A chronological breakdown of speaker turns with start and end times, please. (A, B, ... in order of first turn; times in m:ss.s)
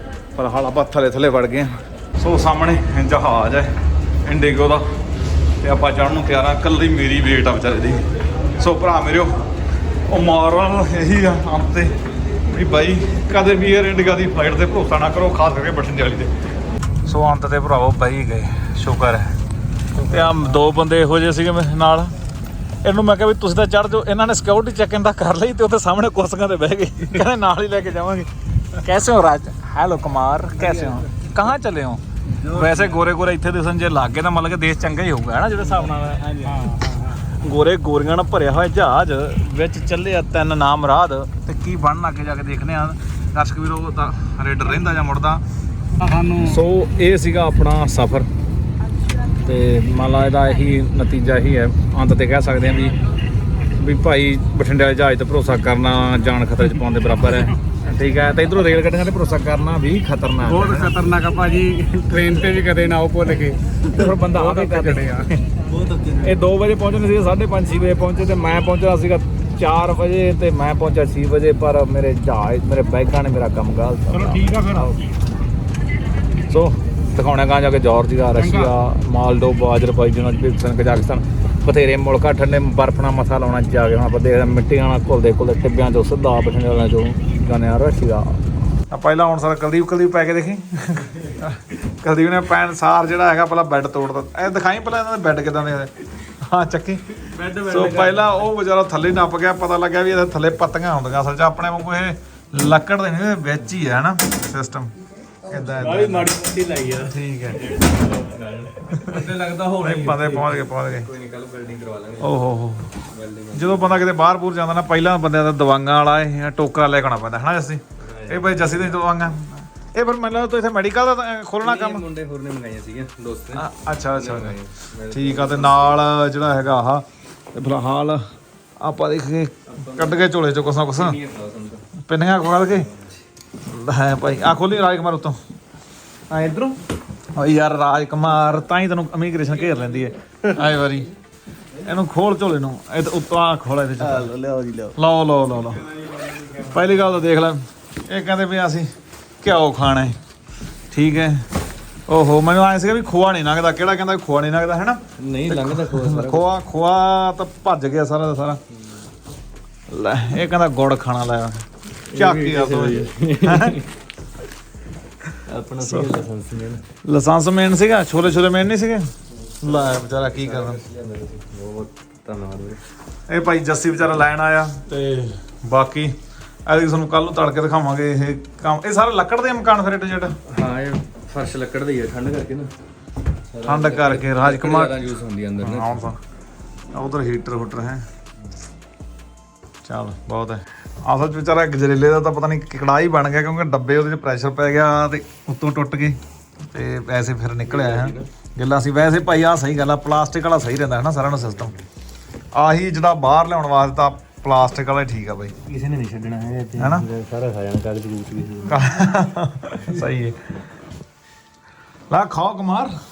0:00.3-0:05.0 A
0:05.6-0:08.0 A
0:08.6-0:09.4 A
0:10.1-0:16.3 A
0:17.0-0:19.4 A
0:20.0-0:22.1 A
0:22.8-0:45.4 A
0:36.4-0:37.0 B
0:46.0-0:46.3 B
0:46.3-0:48.3 A
0:49.4-0:53.0 A
0:53.7-1:01.0 A
1:00.6-1:05.3 B
1:03.8-1:05.4 A
1:06.1-1:15.1 A
1:14.4-1:14.7 B
1:16.5-1:44.9 A
1:37.2-1:38.3 C
1:45.4-1:46.4 A
1:45.7-1:54.1 C
1:46.9-1:47.7 A
1:48.9-1:51.1 A
1:52.2-1:53.0 A
1:53.5-2:02.1 A
1:58.0-1:58.9 C
2:01.6-2:06.0 C
2:03.5-2:04.6 A
2:05.1-2:08.2 A
2:08.8-2:11.2 A
2:09.7-2:10.3 C
2:10.9-2:11.8 C
2:12.0-2:12.9 A
2:12.8-2:13.2 C
2:13.6-2:15.4 A
2:16.3-2:16.8 A
2:17.3-2:21.1 A
2:21.8-2:24.3 A
2:24.0-2:25.0 C
2:24.9-2:25.9 A
2:26.5-2:28.9 A
2:29.4-2:30.2 A
2:30.9-2:31.5 A
2:32.1-2:38.6 A
2:35.2-2:36.5 C
2:39.9-2:43.8 A
2:42.1-2:43.9 C
2:45.4-2:46.8 C
2:45.8-2:46.1 A
2:47.0-2:49.1 A
2:49.5-2:52.8 C
2:49.6-2:50.8 A
2:53.3-2:56.1 A
2:55.0-2:55.3 C
2:56.6-3:00.4 A
3:00.5-3:02.7 C
3:03.5-3:06.1 C
3:03.6-3:05.0 A
3:05.6-3:06.2 A
3:06.9-3:08.0 A
3:09.8-3:21.8 A
3:17.6-3:18.3 C
3:22.5-3:25.6 A
3:25.6-3:28.9 C
3:26.8-3:27.1 A
3:28.7-3:30.5 A
3:32.1-3:32.9 A